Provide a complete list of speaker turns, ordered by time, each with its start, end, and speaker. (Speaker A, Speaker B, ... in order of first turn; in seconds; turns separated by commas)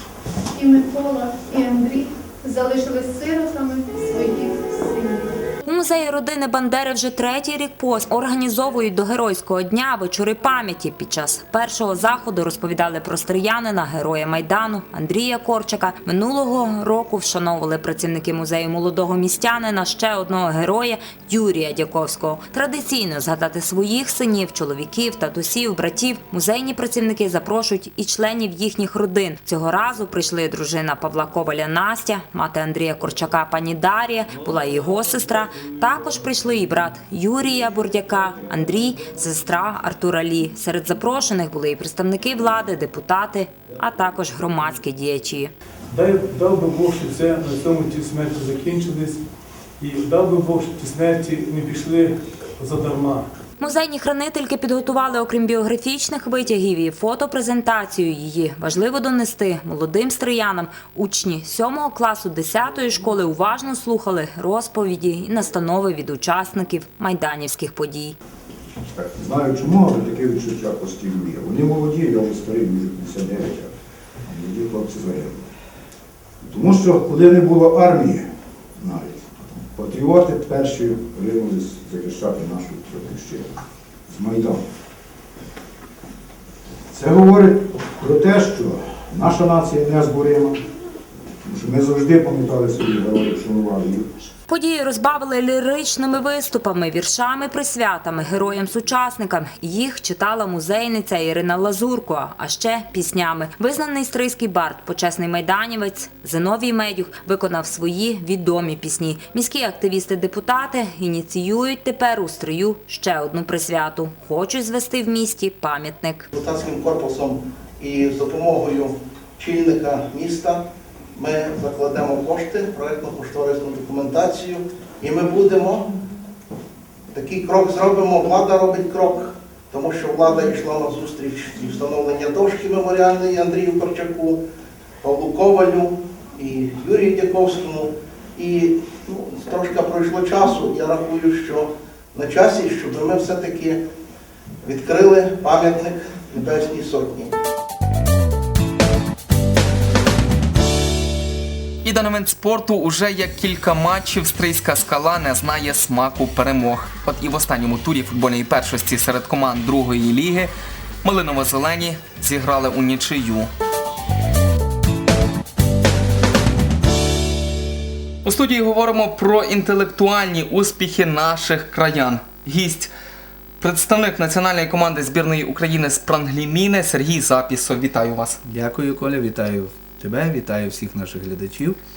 Speaker A: 0.5-5.4, Speaker B: 5.7-45.5, Speaker C: 45.9-49.2, Speaker C: 49.8-53.3, Speaker B: 53.6-68.2, Speaker D: 68.9-73.7, Speaker D: 74.2-75.5, Speaker D: 76.4-84.6, Speaker D: 86.9-90.6, Speaker D: 91.4-94.1, Speaker B: 94.5-116.3, Speaker E: 116.3-120.6, Speaker E: 121.2-125.9, Speaker E: 127.1-134.4, Speaker E: 135.0-143.8, Speaker E: 144.6-147.3, Speaker F: 151.8-160.5, Speaker F: 161.0-163.5, Speaker F: 168.2-172.9, Speaker F: 173.6-178.4, Speaker G: 178.4-181.8